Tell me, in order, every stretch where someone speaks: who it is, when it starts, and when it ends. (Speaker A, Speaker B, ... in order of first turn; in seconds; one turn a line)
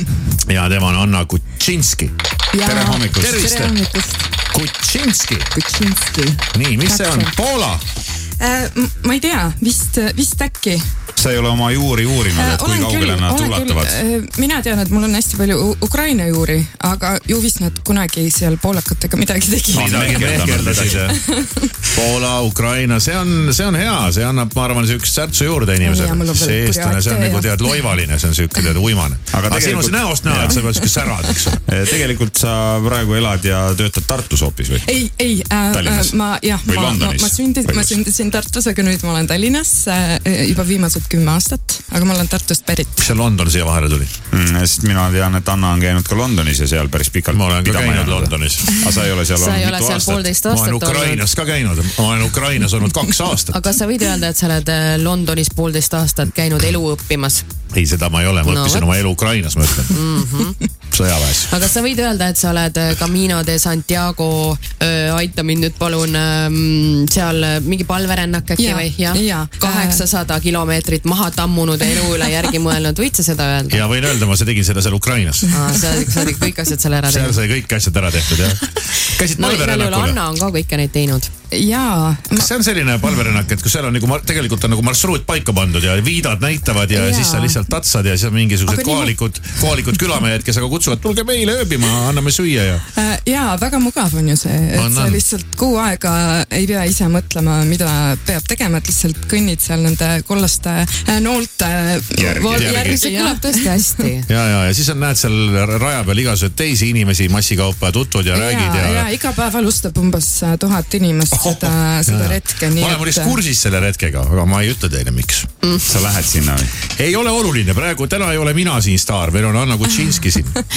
Speaker A: 0.4-2.1
Speaker B: 2.5-4.3
Speaker C: 2.6-3.5
Speaker A: 3.1-3.7
Speaker A: 4.5-5.5
Speaker B: 5.5-7.3
Speaker A: 6.5-7.8
Speaker B: 8.4-10.8
Speaker C: 11.2-14.0
Speaker B: 12.3-21.7
Speaker A: 19.7-21.2
Speaker C: 19.7-21.0
Speaker A: 21.9-31.6
Speaker B: 25.8-27.9
Speaker C: 29.3-30.7
Speaker B: 31.0-31.5
Speaker C: 31.7-34.9
Speaker B: 34.8-43.1
Speaker C: 35.7-38.0
Speaker A: 43.0-44.1
Speaker C: 44.3-50.2
Speaker A: 47.3-48.7
Speaker D: 49.3-51.2
Speaker A: 50.4-53.6
Speaker D: 53.5-57.4
Speaker A: 57.7-60.0
Speaker D: 58.4-58.9
Speaker D: 59.9-60.6
Speaker A: 60.9-61.5
Speaker D: 61.4-73.8
Speaker B: 68.6-70.0
Speaker A: 73.7-75.8
Speaker D: 75.5-77.4
Speaker A: 77.0-80.2
Speaker D: 79.3-81.3
Speaker B: 81.5-82.5
Speaker A: 82.3-92.8
Speaker B: 86.9-87.6
Speaker B: 88.7-89.1
Speaker B: 92.9-104.0
Speaker A: 94.8-95.2
Speaker C: 102.2-102.7
Speaker A: 102.5-103.0
Speaker D: 102.7-104.3
Speaker A: 104.3-109.1
Speaker B: 108.3-113.4
Speaker A: 111.4-115.5
Speaker D: 115.6-115.9
Speaker C: 115.8-116.7
Speaker A: 116.8-120.6